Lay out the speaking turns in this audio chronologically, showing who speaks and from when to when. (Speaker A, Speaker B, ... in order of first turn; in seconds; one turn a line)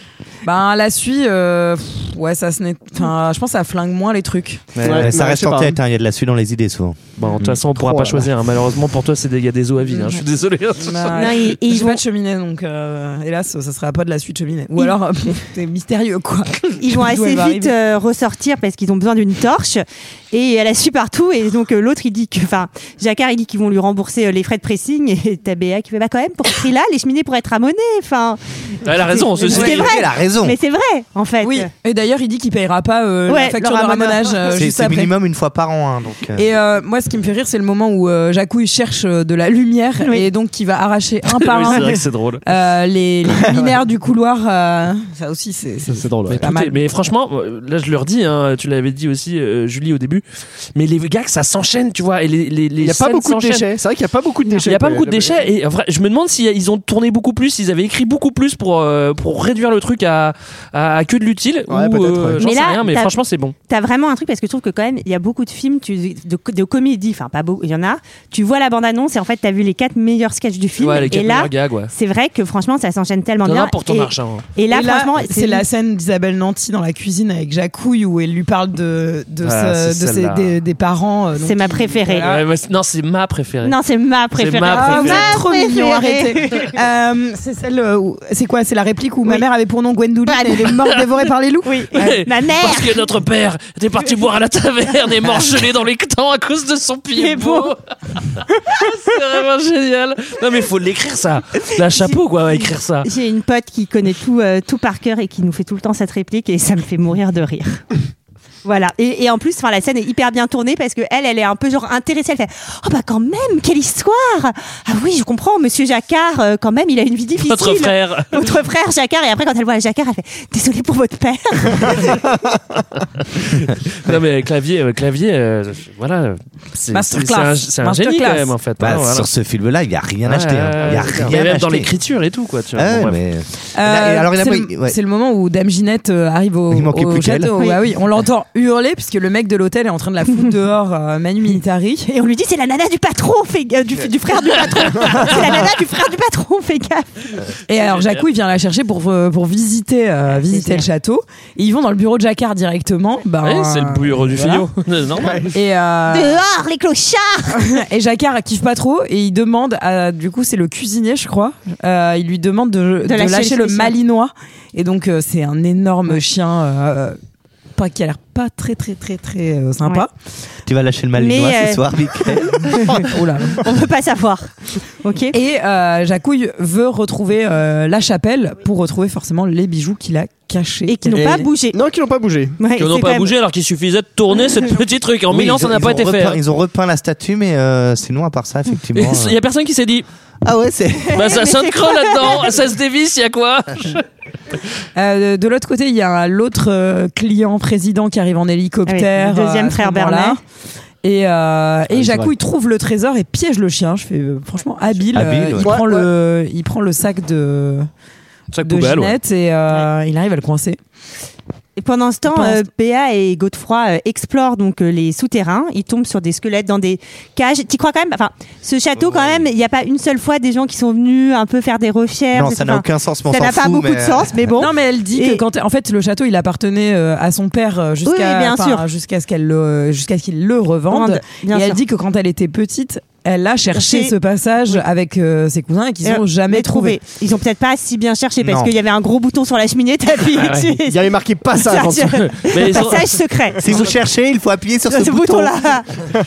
Speaker A: 0.4-4.7
Speaker B: 4.7-5.1
Speaker C: 4.8-5.7
Speaker D: 4.9-8.3
Speaker B: 7.2-11.4
Speaker A: 10.8-17.7
Speaker E: 11.1-12.0
Speaker E: 16.8-31.7
Speaker B: 28.8-29.9
Speaker A: 29.5-29.8
Speaker D: 29.6-30.6
Speaker A: 31.4-35.1
Speaker E: 33.3-34.5
Speaker D: 34.5-36.4
Speaker A: 36.4-46.8
Speaker B: 41.3-42.4
Speaker C: 43.3-43.7
Speaker C: 45.9-46.5
Speaker B: 46.3-50.2
Speaker B: 50.8-53.7
Speaker C: 52.8-55.4
Speaker B: 54.6-63.5
Speaker C: 61.7-62.5
Speaker E: 62.4-63.1
Speaker E: 63.7-75.6
Speaker B: 70.8-71.9
Speaker B: 73.4-74.4
Speaker A: 74.7-82.4
Speaker B: 79.4-80.6
Speaker E: 81.4-82.3
Speaker B: 82.2-83.8
Speaker E: 83.6-86.8
Speaker B: 84.3-85.3
Speaker A: 84.7-91.9
Speaker E: 90.3-90.9
Speaker E: 91.6-93.0
Speaker B: 91.9-103.1
Speaker E: 97.1-97.7
Speaker E: 103.0-107.8
Speaker E: 108.6-122.3
Speaker B: 117.4-118.5
Speaker B: 123.5-129.3
Speaker A: 126.9-128.5
Speaker D: 128.8-131.9
Speaker B: 130.2-133.2
Speaker C: 130.9-131.3
Speaker D: 132.7-135.0
Speaker A: 133.7-142.1
Speaker D: 136.7-137.5
Speaker E: 142.1-147.3
Speaker C: 145.1-145.4
Speaker A: 147.7-154.6
Speaker E: 150.3-150.8
Speaker B: 153.4-155.5
Speaker C: 155.2-155.5
Speaker A: 155.5-156.4
Speaker E: 156.1-157.7
Speaker A: 157.6-167.2
Speaker E: 163.0-163.9
Speaker A: 167.8-170.1
Speaker D: 170.7-173.2
Speaker E: 171.2-173.1
Speaker E: 173.6-174.5
Speaker E: 175.0-175.3
Speaker A: 175.3-181.5
Speaker E: 180.9-181.8
Speaker C: 181.1-182.6
Speaker E: 182.6-183.3
Speaker B: 182.8-186.4
Speaker D: 185.3-189.4
Speaker B: 188.9-190.1
Speaker D: 190.4-191.3
Speaker B: 191.1-194.0
Speaker E: 191.2-192.5
Speaker A: 194.9-200.4
Speaker E: 198.8-200.4
Speaker A: 201.0-207.9
Speaker C: 201.9-202.3
Speaker D: 205.1-205.7
Speaker C: 205.6-206.1
Speaker B: 208.5-209.2
Speaker A: 208.6-210.8
Speaker E: 211.8-225.4
Speaker A: 212.3-212.6
Speaker D: 222.3-224.6
Speaker A: 224.6-237.0
Speaker E: 228.0-228.8
Speaker E: 230.9-231.8
Speaker E: 233.7-234.1
Speaker E: 236.0-241.0
Speaker D: 238.4-238.7
Speaker B: 240.4-240.7
Speaker C: 240.8-242.8
Speaker E: 241.6-243.9
Speaker B: 242.1-243.2
Speaker D: 243.6-245.5
Speaker E: 244.9-245.9